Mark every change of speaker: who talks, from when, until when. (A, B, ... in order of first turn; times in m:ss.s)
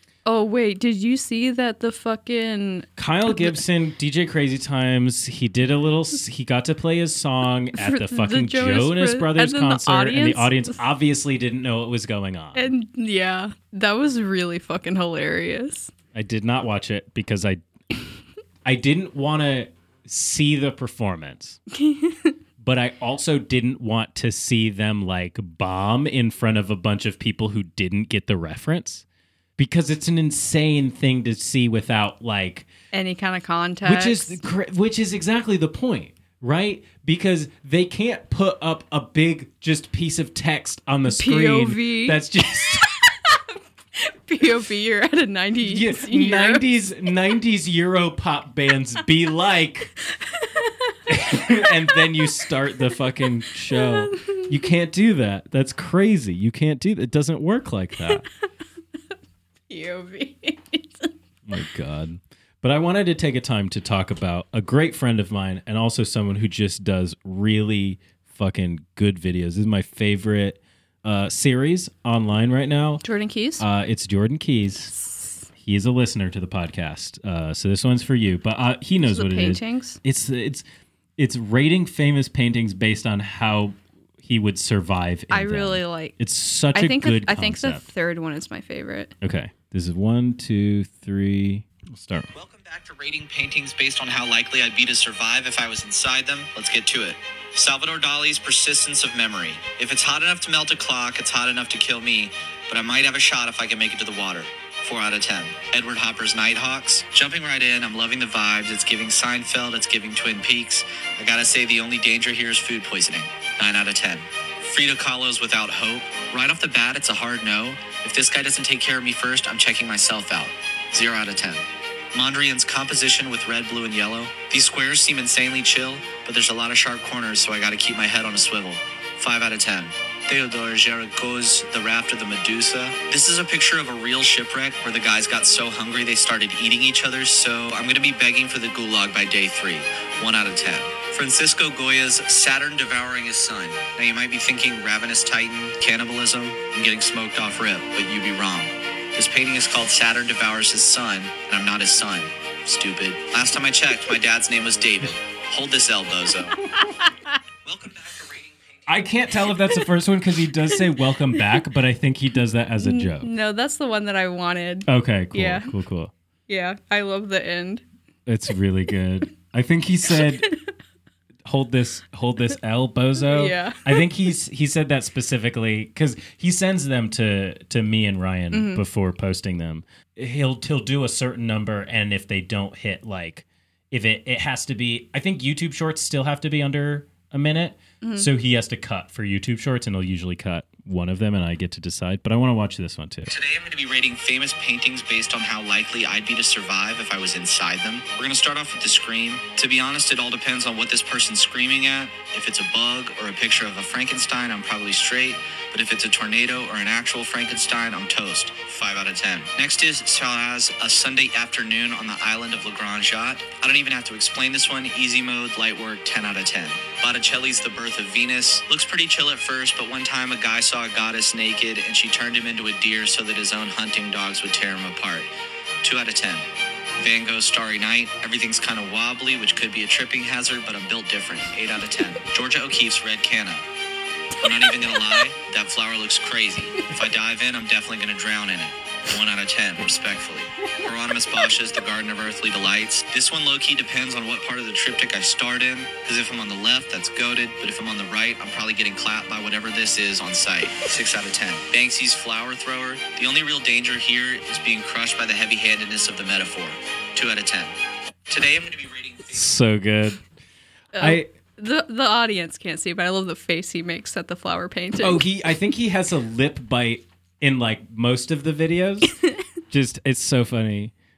0:00.2-0:03.6 A
0:03.0-0:12.7 B
0:07.8-0:10.8 A
0:12.5-0:15.9 A
0:16.1-0:17.6 B
0:18.6-0:21.6 B
0:21.8-0:22.3 A
0:22.6-0:29.0 B
0:29.6-0:32.7 B
0:32.9-0:34.4 A
0:33.8-0:43.0 B
0:41.1-0:42.2 A
0:44.0-0:46.6 A
0:45.6-0:49.9 B
0:50.2-0:52.1 A
0:51.1-0:58.2 B
0:53.7-0:54.4 A
0:59.7-1:01.1 A
1:01.5-1:13.0 B
1:13.0-1:13.6 A
1:13.6-1:14.9 B
1:15.6-1:20.6 B
1:19.0-1:20.0 A
1:21.2-1:27.8 B
1:25.3-1:26.2 A
1:26.7-1:29.1 A
1:29.2-1:32.3 B
1:32.3-2:36.6 C
2:37.6-2:38.8 C
2:38.9-2:43.3 B
2:42.8-2:45.7 A
2:44.9-2:46.1 B
2:46.5-2:47.8 A
2:48.2-2:50.5 B
2:51.4-3:13.3 B
2:53.2-2:54.0 A
2:58.5-2:58.8 A
3:08.0-3:08.3 A
3:13.3-3:45.3 C
3:45.8-3:46.4 C
3:47.0-3:53.6 C
3:54.4-4:17.7 C
4:18.3-4:19.5 C
4:19.3-4:20.2 B
4:20.9-4:25.2 A
4:21.0-4:21.3 B
4:25.0-4:29.2 B
4:29.7-4:30.9 B